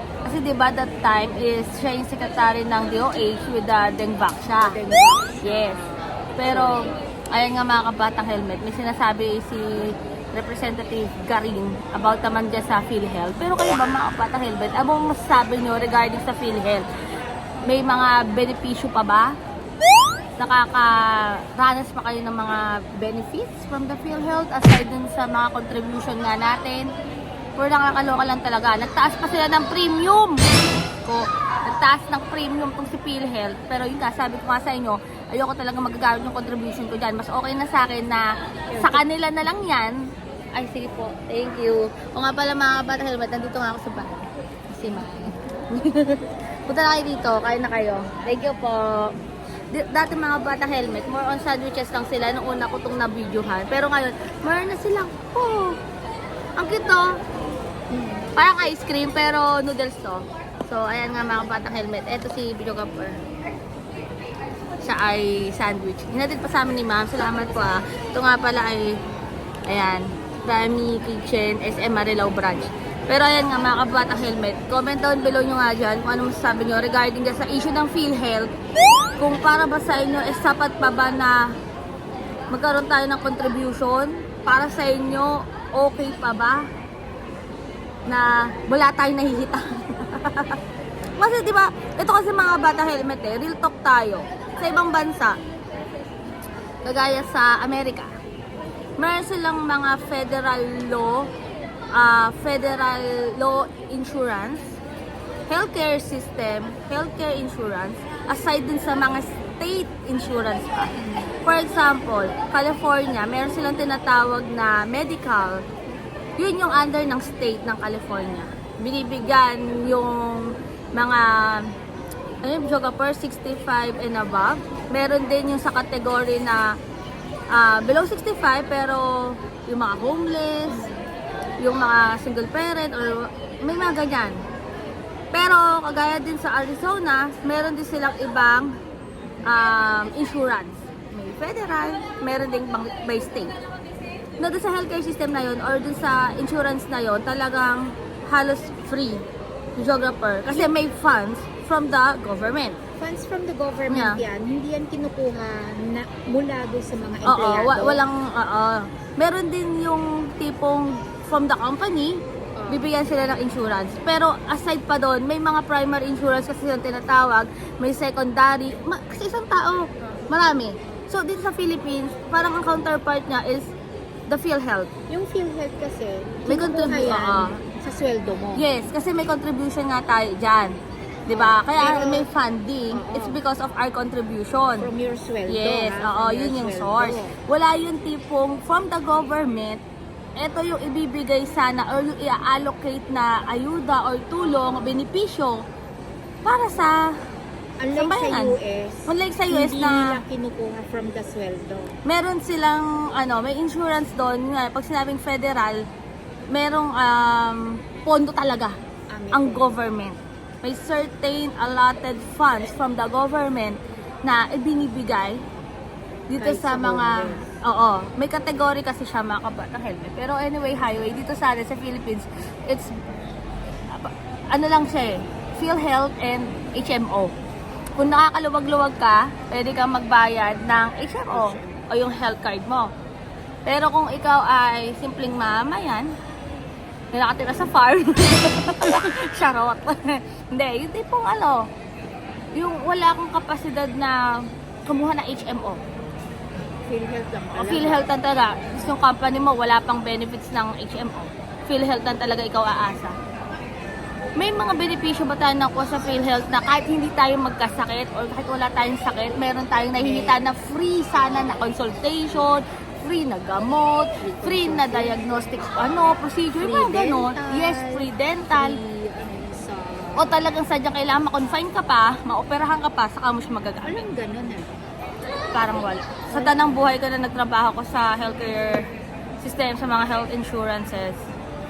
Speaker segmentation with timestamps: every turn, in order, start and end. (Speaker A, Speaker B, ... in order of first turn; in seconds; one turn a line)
Speaker A: 0.2-4.8
Speaker B: 4.6-6.9
Speaker A: 5.4-5.8
Speaker A: 6.4-16.9
Speaker A: 17.6-19.3
Speaker A: 20.4-26.9
Speaker A: 27.6-30.5
Speaker A: 31.0-49.1
Speaker B: 38.7-39.0
Speaker A: 49.7-55.8
Speaker A: 56.6-57.2
Speaker B: 57.9-58.2
Speaker A: 58.3-63.2
Speaker A: 64.8-69.0
Speaker A: 69.7-78.5
Speaker A: 79.2-81.5
Speaker A: 82.5-86.7
Speaker A: 88.1-90.6
Speaker A: 91.2-95.4
Speaker A: 96.8-98.1
Speaker A: 99.0-101.3
Speaker A: 101.9-104.8
Speaker A: 105.5-115.6
Speaker B: 111.0-111.3
Speaker A: 116.4-121.7
Speaker A: 122.4-126.8
Speaker A: 127.5-130.9
Speaker B: 130.7-131.0
Speaker A: 131.6-134.4
Speaker A: 135.3-138.8
Speaker A: 139.4-143.5
Speaker A: 144.4-149.2
Speaker A: 149.8-152.8
Speaker B: 153.0-158.0
Speaker A: 153.9-154.2
Speaker A: 157.2-173.7
Speaker B: 162.6-162.9
Speaker A: 174.3-174.9
Speaker B: 175.1-178.7
Speaker A: 176.5-177.6
Speaker A: 178.6-180.8
Speaker A: 181.3-184.9
Speaker B: 181.3-182.3
Speaker B: 182.9-183.4
Speaker B: 184.8-187.4
Speaker A: 185.5-189.8
Speaker A: 190.4-195.6
Speaker A: 196.4-197.2
Speaker B: 197.8-202.0
Speaker A: 197.9-200.2
Speaker A: 202.1-205.9
Speaker A: 206.5-208.8
Speaker B: 209.1-209.8
Speaker A: 209.3-215.4
Speaker A: 216.3-222.9
Speaker B: 216.4-217.5
Speaker A: 223.9-227.3
Speaker A: 228.0-232.9
Speaker A: 233.7-236.1
Speaker A: 237.1-241.7
Speaker A: 242.5-245.8
Speaker B: 246.9-248.1
Speaker A: 247.6-253.2
Speaker A: 254.4-268.8
Speaker B: 260.0-260.4
Speaker B: 264.2-265.4
Speaker B: 266.6-270.4
Speaker A: 270.2-274.0
Speaker B: 273.8-274.8
Speaker A: 275.5-278.9
Speaker B: 276.3-276.7
Speaker A: 279.4-281.3